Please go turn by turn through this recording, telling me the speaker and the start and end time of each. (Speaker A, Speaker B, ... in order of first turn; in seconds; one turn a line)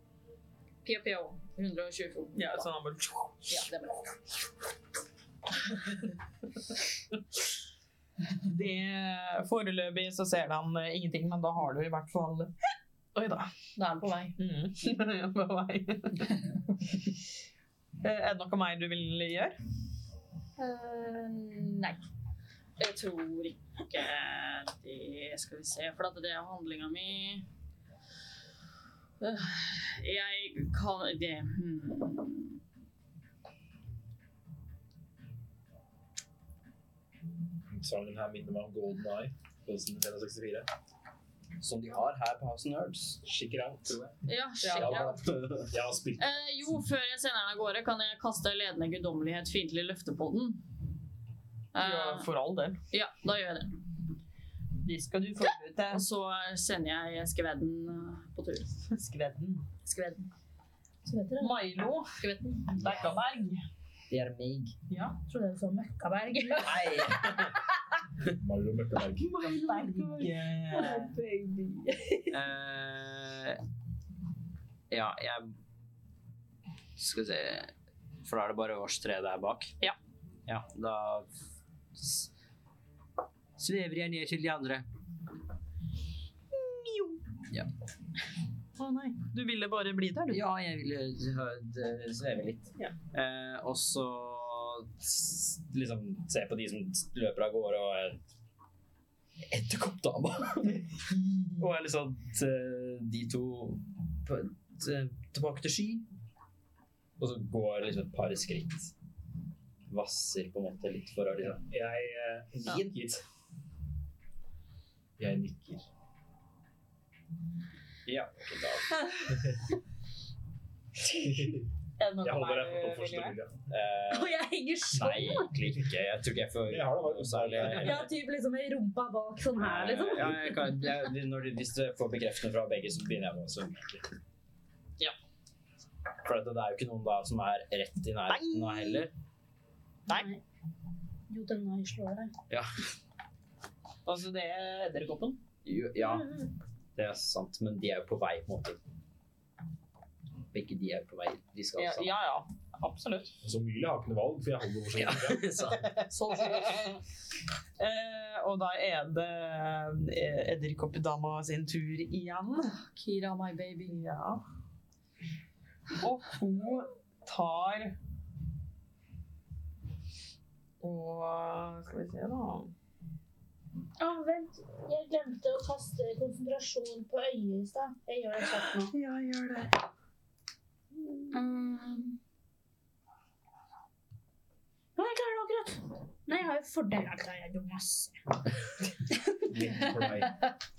Speaker A: 0.8-2.7
Speaker B: 2.3-3.5
Speaker A: 3.5-4.2
Speaker B: 8.4-12.5
Speaker B: 13.1-13.5
Speaker A: 13.8-14.3
Speaker B: 14.4-16.3
Speaker B: 18.0-19.6
Speaker A: 20.6-22.0
Speaker A: 22.8-27.4
Speaker A: 29.2-32.6
Speaker C: 37.7-40.7
Speaker D: 41.6-43.2
Speaker C: 43.2-44.1
Speaker A: 44.2-45.2
Speaker B: 44.6-45.2
Speaker C: 44.8-46.2
Speaker D: 45.2-45.7
Speaker A: 46.2-50.6
Speaker A: 51.7-52.3
Speaker B: 51.8-52.8
Speaker A: 52.9-53.8
Speaker B: 54.8-56.0
Speaker A: 55.9-58.8
Speaker B: 58.9-59.6
Speaker A: 59.8-60.3
Speaker E: 61.0-61.6
Speaker B: 61.4-62.2
Speaker A: 62.2-62.8
Speaker B: 62.7-63.6
Speaker D: 62.7-63.2
Speaker D: 64.1-64.7
Speaker B: 64.9-65.2
Speaker E: 65.3-67.6
Speaker D: 66.6-67.7
Speaker C: 68.3-69.3
Speaker B: 69.2-71.1
Speaker E: 69.3-72.4
Speaker D: 72.3-73.6
Speaker D: 74.9-75.5
Speaker D: 77.0-77.7
Speaker D: 78.2-79.7
Speaker D: 80.5-81.3
Speaker D: 81.9-82.3
Speaker D: 83.6-84.8
Speaker B: 86.5-87.2
Speaker B: 88.8-90.4
Speaker D: 90.3-98.2
Speaker D: 99.5-106.0
Speaker D: 107.2-108.9
Speaker D: 109.9-111.6
Speaker C: 111.6-113.2
Speaker C: 115.2-115.8
Speaker D: 118.0-119.0
Speaker C: 121.1-121.7
Speaker B: 122.0-123.3
Speaker C: 122.2-123.6
Speaker D: 123.7-124.4
Speaker E: 124.1-125.5
Speaker D: 124.9-128.1
Speaker C: 125.0-125.9
Speaker C: 126.7-128.0
Speaker E: 127.7-130.8
Speaker D: 129.6-134.1
Speaker D: 136.2-139.1
Speaker B: 138.3-139.1
Speaker E: 140.1-140.4
Speaker E: 141.3-142.3
Speaker B: 144.0-145.4
Speaker D: 145.6-146.4
Speaker D: 146.9-148.8
Speaker D: 150.5-152.1
Speaker B: 151.8-153.4
Speaker C: 153.4-155.6
Speaker D: 154.9-156.8
Speaker A: 156.1-157.0
Speaker B: 157.8-162.7
Speaker A: 162.8-164.0
Speaker B: 163.9-164.4
Speaker B: 166.0-168.0
Speaker B: 170.8-172.7
Speaker E: 174.0-178.9
Speaker B: 178.6-179.8
Speaker A: 181.3-182.1
Speaker E: 184.9-188.2
Speaker C: 189.4-190.4